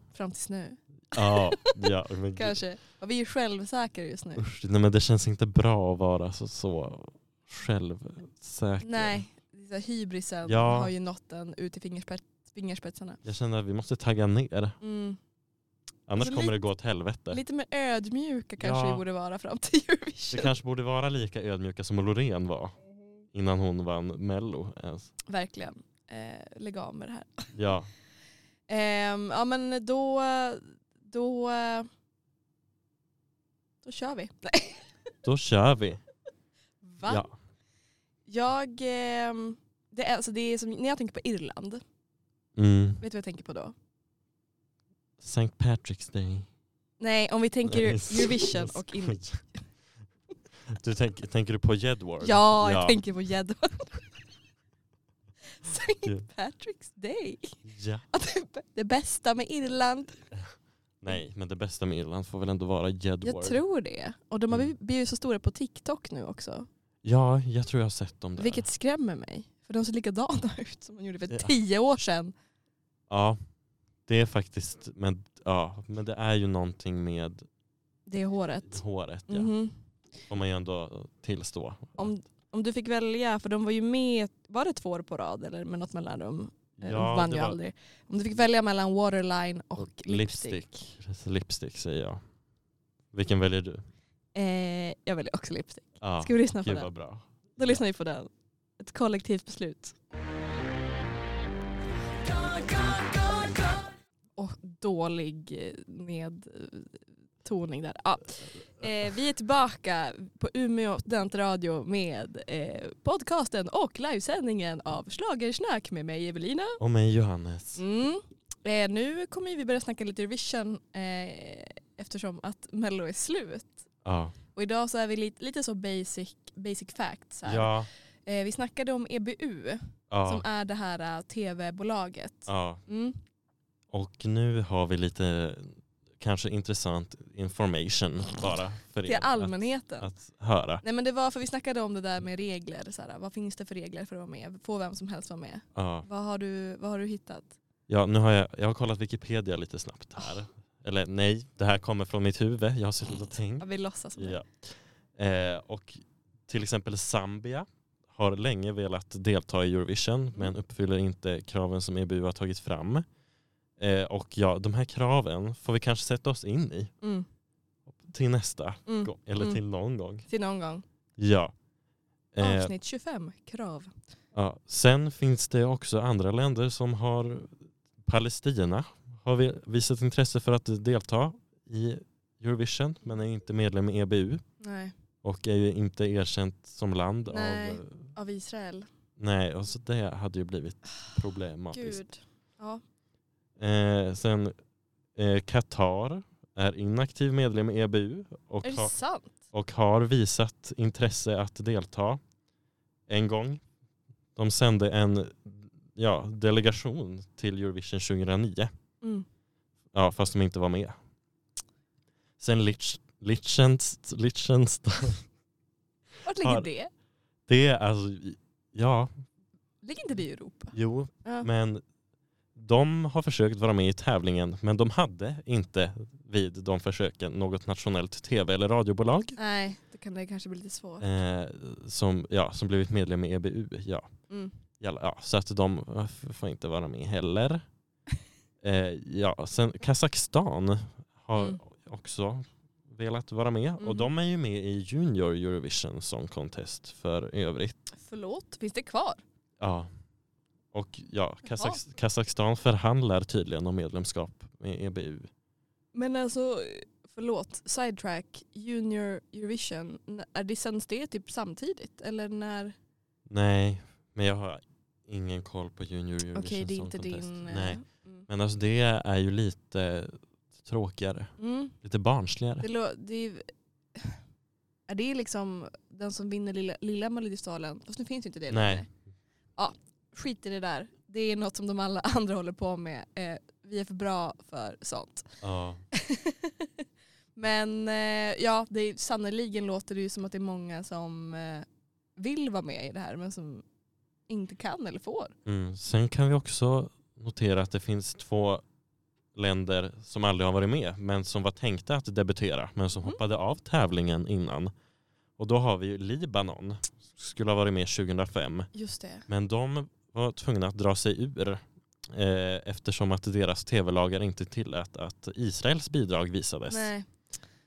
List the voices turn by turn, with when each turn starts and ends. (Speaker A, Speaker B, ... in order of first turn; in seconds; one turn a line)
Speaker A: 0.1-1.8
Speaker B: 1.1-2.6
Speaker A: 2.3-4.4
Speaker B: 4.4-9.2
Speaker A: 8.8-13.2
Speaker B: 10.4-10.9
Speaker B: 13.2-14.8
Speaker A: 14.8-15.2
Speaker B: 16.1-17.4
Speaker A: 16.2-16.6
Speaker A: 17.3-20.5
Speaker B: 18.6-19.0
Speaker B: 20.3-22.8
Speaker B: 23.3-25.1
Speaker A: 25.3-27.5
Speaker B: 27.5-27.9
Speaker A: 28.7-31.9
Speaker A: 33.8-34.9
Speaker B: 35.2-36.0
Speaker A: 36.8-37.2
Speaker B: 37.0-37.3
Speaker A: 38.3-41.8
Speaker B: 42.5-43.0
Speaker A: 43.0-43.7
Speaker B: 45.2-46.5
Speaker A: 47.0-49.2
Speaker B: 47.6-49.4
Speaker B: 50.6-53.0
Speaker A: 52.2-54.1
Speaker A: 55.5-60.2
Speaker B: 57.6-58.0
Speaker B: 61.0-63.6
Speaker A: 63.2-66.7
Speaker B: 67.0-68.6
Speaker A: 68.4-72.3
Speaker B: 73.1-73.4
Speaker B: 74.1-77.5
Speaker A: 78.1-79.8
Speaker B: 78.7-79.5
Speaker B: 80.3-82.1
Speaker A: 82.0-90.6
Speaker B: 86.8-87.6
Speaker B: 89.8-92.2
Speaker B: 93.1-93.8
Speaker A: 94.3-96.9
Speaker B: 96.0-97.8
Speaker A: 97.5-100.0
Speaker A: 102.2-103.8
Speaker A: 104.3-116.8
Speaker B: 116.8-117.8
Speaker A: 117.8-123.8
Speaker B: 124.0-124.3
Speaker A: 124.5-127.7
Speaker B: 127.4-127.9
Speaker A: 128.2-133.2
Speaker B: 130.1-130.4
Speaker B: 132.5-132.8
Speaker B: 133.9-140.8
Speaker A: 139.0-140.1
Speaker A: 140.8-147.5
Speaker B: 145.7-146.1
Speaker B: 147.9-163.1
Speaker A: 153.6-154.4
Speaker B: 163.8-166.9
Speaker A: 167.0-167.3
Speaker B: 168.0-170.2
Speaker A: 168.8-169.6
Speaker A: 170.3-170.8
Speaker B: 171.2-171.5
Speaker B: 172.3-172.7
Speaker A: 172.4-173.9
Speaker B: 174.3-184.4
Speaker A: 184.6-184.9
Speaker B: 185.2-188.1
Speaker A: 187.3-188.9
Speaker B: 189.2-192.0
Speaker A: 191.7-192.8
Speaker B: 193.6-194.5
Speaker B: 195.1-198.9
Speaker A: 198.6-199.4
Speaker B: 199.5-202.2
Speaker B: 203.1-203.6
Speaker B: 204.3-208.7
Speaker B: 209.9-210.9
Speaker B: 212.4-215.2
Speaker A: 216.2-216.9
Speaker B: 216.4-216.7
Speaker B: 217.5-219.1
Speaker A: 219.8-221.5
Speaker B: 220.7-221.8
Speaker B: 222.5-229.4
Speaker A: 229.4-231.1
Speaker B: 231.0-234.1
Speaker A: 234.3-234.6
Speaker B: 234.8-237.7
Speaker B: 238.6-247.8
Speaker A: 241.3-241.6
Speaker A: 243.8-244.1
Speaker A: 247.9-249.2
Speaker B: 249.6-249.9
Speaker B: 250.7-255.3
Speaker A: 251.4-251.8
Speaker A: 255.9-262.8
Speaker B: 263.3-272.6
Speaker A: 266.3-268.3
Speaker A: 271.4-271.8
Speaker A: 272.6-274.2
Speaker A: 274.9-278.9
Speaker B: 278.5-278.9
Speaker A: 279.6-285.3
Speaker B: 285.4-285.8
Speaker A: 285.9-286.8
Speaker A: 287.4-291.6
Speaker A: 292.2-293.6
Speaker A: 294.3-295.3
Speaker B: 295.4-298.6
Speaker B: 299.3-304.7
Speaker B: 305.4-308.7
Speaker A: 308.7-309.3
Speaker B: 309.3-316.9
Speaker A: 316.7-317.1